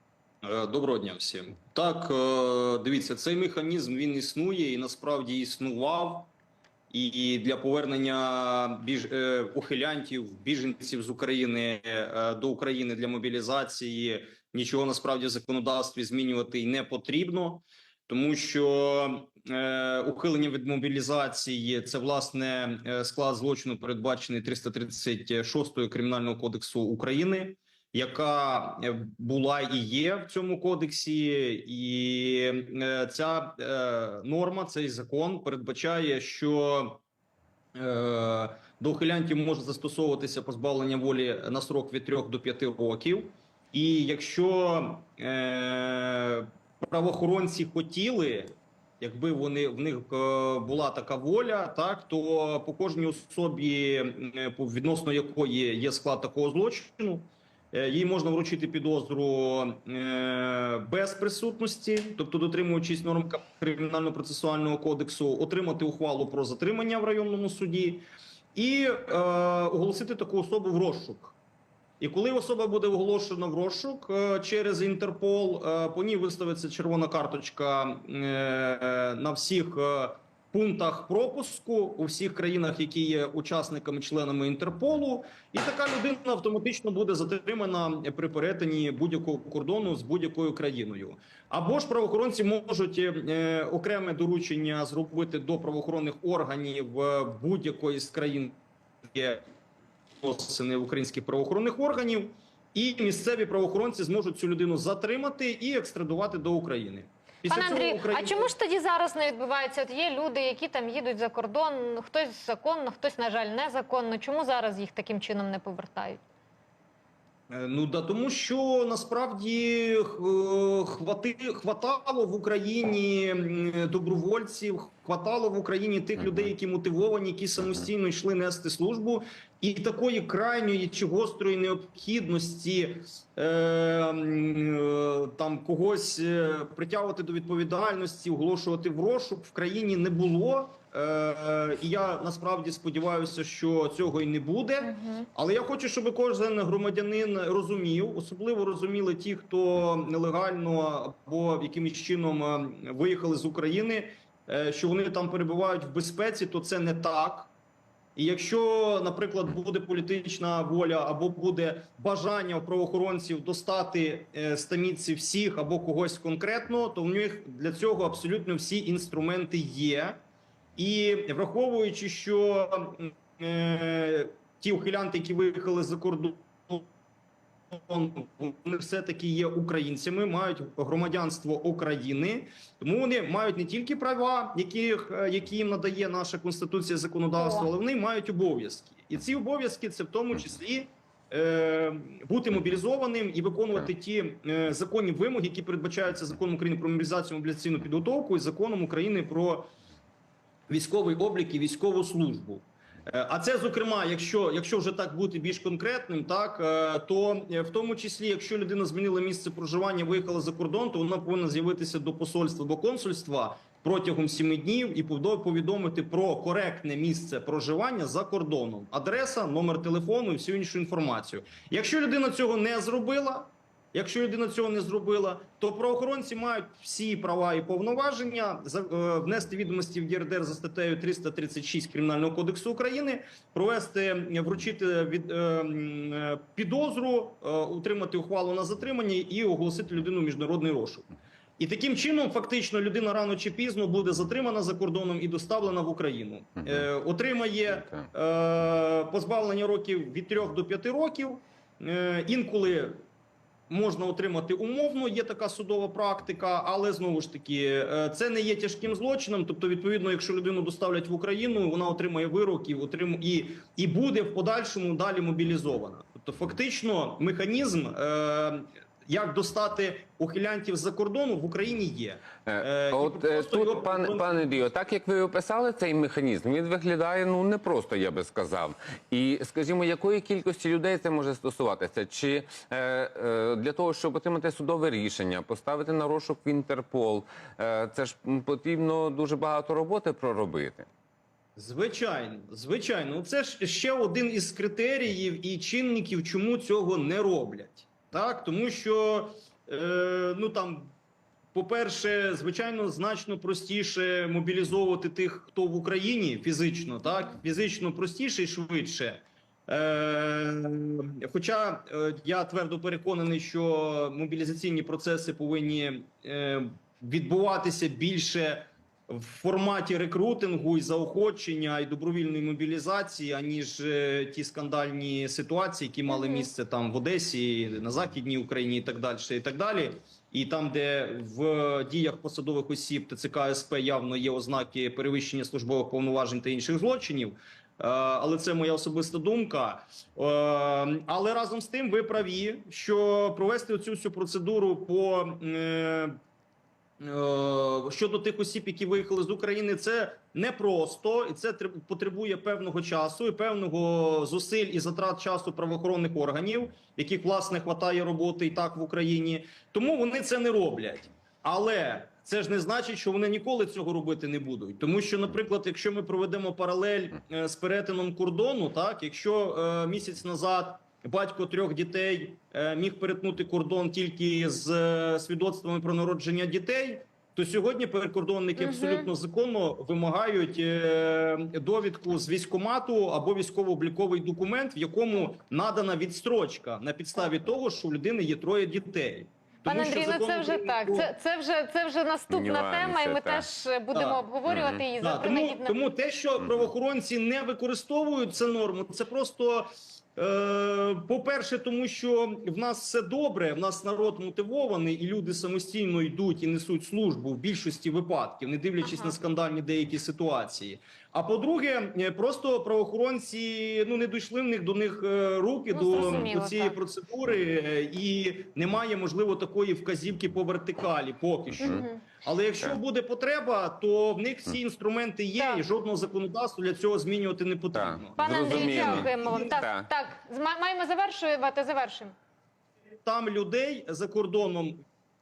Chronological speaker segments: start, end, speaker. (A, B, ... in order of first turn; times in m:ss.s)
0:00.4-0:06.3 A
0:06.9-0:37.0 A
0:37.8-1:11.4 A
1:12.0-1:38.6 A
1:39.1-1:39.4 A
1:40.2-1:48.5 A
1:47.5-1:56.2 B
1:57.5-2:37.5 A
2:24.8-2:25.3 B
2:38.2-2:50.2 A
2:50.8-2:56.9 A
2:57.7-3:19.7 A
3:07.4-3:07.7 B
3:20.7-4:13.0 A
4:13.7-4:34.6 A
4:32.5-4:50.9 C
4:51.6-5:00.9 A
5:01.5-5:46.2 A
5:26.1-5:26.5 B
5:47.0-6:31.1 A
6:18.6-6:19.1 B
6:29.6-6:35.8 B
6:32.3-6:33.5 C
6:33.9-6:34.2 A
6:34.5-6:34.8 C
6:35.0-7:09.6 A
6:48.8-6:49.1 B
6:55.7-6:56.8 B
7:01.6-7:02.0 B
7:05.4-7:05.6 B
7:07.7-7:09.9 C
7:08.2-7:12.2 B
7:13.0-7:14.8 A